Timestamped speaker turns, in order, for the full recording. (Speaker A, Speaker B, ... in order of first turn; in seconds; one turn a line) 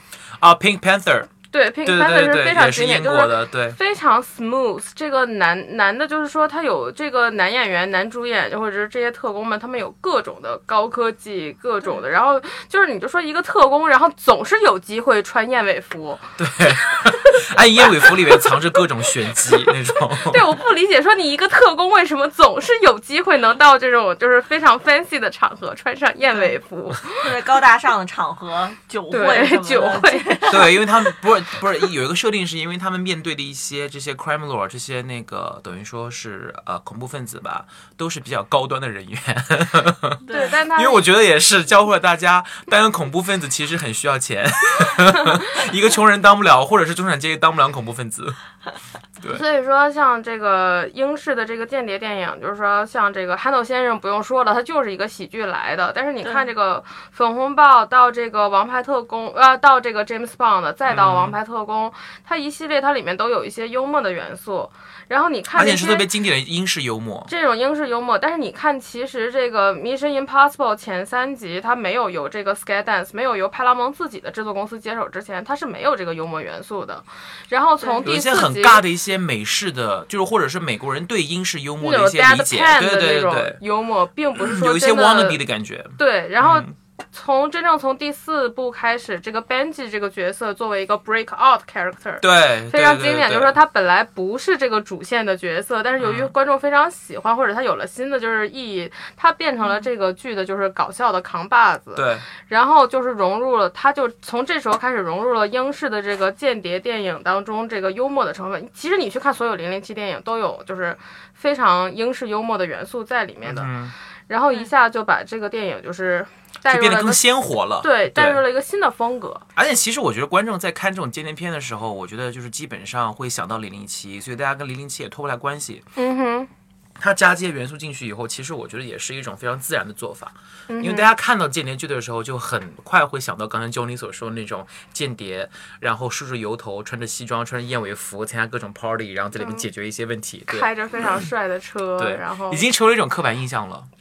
Speaker A: 0.4-1.3
Speaker B: 1.5-18.6
Speaker A: 1.8-3.8
Speaker A: 16.4-20.5
Speaker B: 20.2-27.3
Speaker C: 27.1-30.9
Speaker B: 29.1-30.8
Speaker A: 30.5-48.4
Speaker C: 40.3-40.5
Speaker B: 40.3-41.0
Speaker B: 49.3-66.1
Speaker A: 60.9-61.4
Speaker A: 65.5-67.3
Speaker B: 67.3-78.8
Speaker C: 77.8-78.0
Speaker A: 78.0-83.6
Speaker B: 81.8-85.4
Speaker A: 84.4-86.7
Speaker B: 86.0-113.7
Speaker A: 92.2-93.5
Speaker A: 96.0-96.3
Speaker A: 102.0-102.3
Speaker A: 113.5-114.0
Speaker B: 114.3-117.2
Speaker A: 116.7-118.4
Speaker B: 117.8-119.5
Speaker A: 119.5-125.8
Speaker B: 126.0-126.5
Speaker A: 127.0-140.7
Speaker B: 130.7-131.1
Speaker B: 139.4-139.7
Speaker B: 140.5-142.7
Speaker A: 142.0-143.9